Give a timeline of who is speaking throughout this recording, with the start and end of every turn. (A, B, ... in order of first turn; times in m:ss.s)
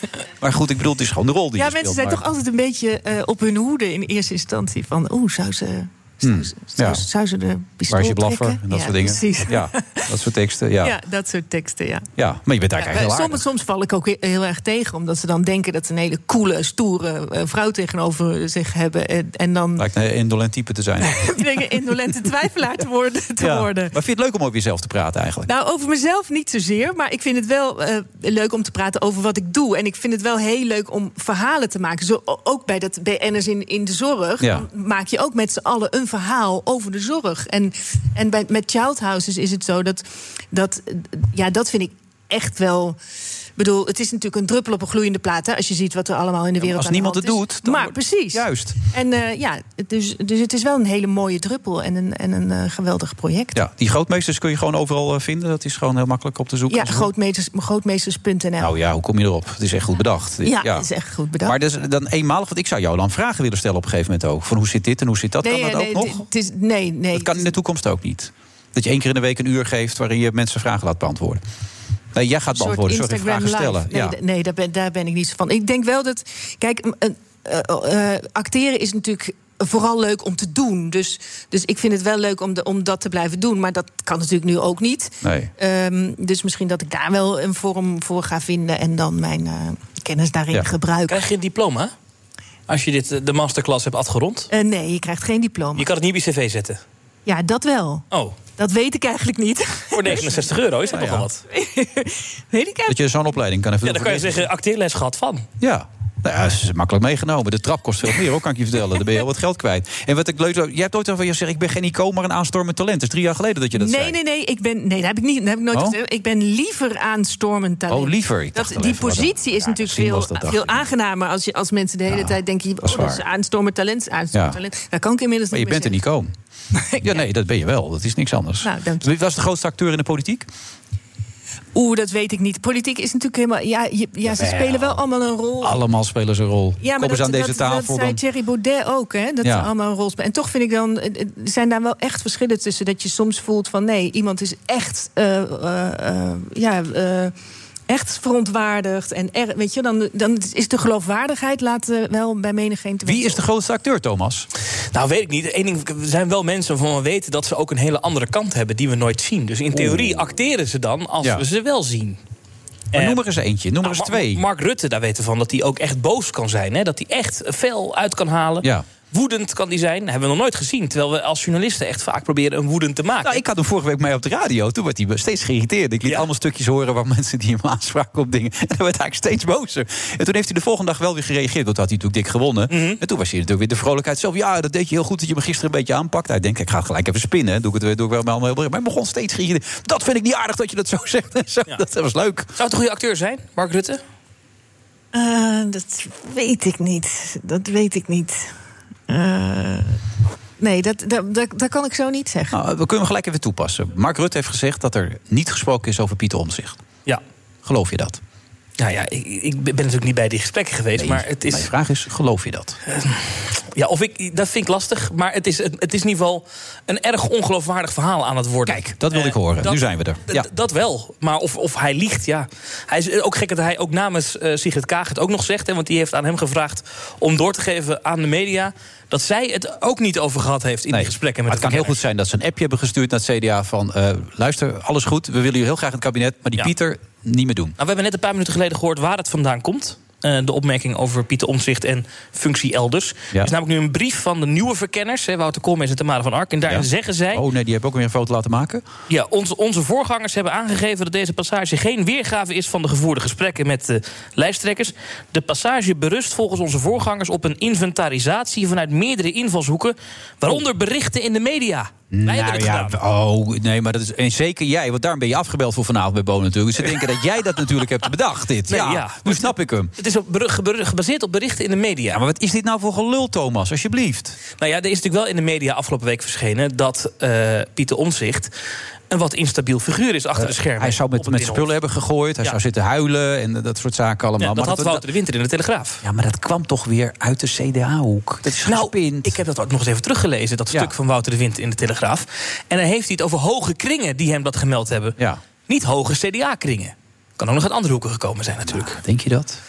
0:00.4-0:02.2 A
0:01.6-0:10.0 B
0:06.2-0:07.0 A
0:07.9-0:11.0 A
0:10.8-0:12.1 B
0:12.2-0:13.4 A
0:12.8-0:19.8 B
0:19.8-0:21.8 A
0:21.1-0:23.9 B
0:23.4-0:25.5 A
0:25.4-0:43.0 B
0:34.4-0:34.6 A
0:43.6-0:53.6 B
0:46.6-0:48.8 A
0:53.5-0:57.1 A
0:56.7-0:58.7 B
0:58.6-1:00.9 A
1:00.4-1:01.6 B
1:01.4-1:06.2 A
1:05.4-1:07.5 B
1:07.1-1:11.4 A
1:12.1-1:14.2 A
1:12.5-1:31.2 B
1:25.2-1:25.5 A
1:31.1-1:31.9 C
1:32.7-1:34.5 C
1:34.5-1:35.9 B
1:35.7-1:36.8 C
1:37.2-1:38.0 B
1:38.1-1:38.4 C
1:38.6-1:40.4 B
1:39.9-1:41.4 C
1:40.9-1:41.3 A
1:41.5-1:43.0 B
1:42.9-1:44.5 A
1:43.8-1:45.4 C
1:45.6-1:54.2 A
1:53.7-2:05.9 B
1:57.9-2:00.8 A
2:02.1-2:03.2 A
2:05.5-2:06.3 A
2:06.7-2:07.2 B
2:07.0-2:10.5 A
2:08.6-2:09.1 B
2:11.7-2:15.8 B
2:14.2-2:15.0 A
2:15.6-2:18.2 A
2:16.8-2:27.3 B
2:19.4-2:19.7 A
2:27.9-2:33.4 B
2:33.0-2:34.5 A
2:34.9-2:42.2 C
2:39.7-2:40.3 A
2:42.9-2:43.2 C
2:42.9-2:44.4 A
2:43.8-2:53.4 C
2:53.2-3:12.5 A
3:02.7-3:03.0 C
3:12.6-3:14.0 C
3:15.1-3:18.5 B
3:19.1-3:20.0 B
3:20.6-3:22.5 B
3:22.5-3:26.8 A
3:27.6-3:28.2 A
3:28.8-3:31.7 C
3:31.0-3:32.8 A
3:32.9-3:52.0 C
3:38.7-3:40.5 A
3:50.9-3:57.7 A
3:57.8-4:07.4 C
4:06.7-4:08.8 A
4:09.1-4:23.0 C
4:22.1-4:29.9 A
4:26.8-4:27.6 C
4:28.7-4:32.2 C
4:32.1-4:34.4 A
4:34.6-4:38.5 C
4:39.1-4:41.7 C
4:40.4-4:45.0 A
4:44.4-4:46.0 C
4:46.0-4:49.4 A
4:48.5-4:55.1 C
4:55.7-4:59.0 C
4:58.7-4:59.6 A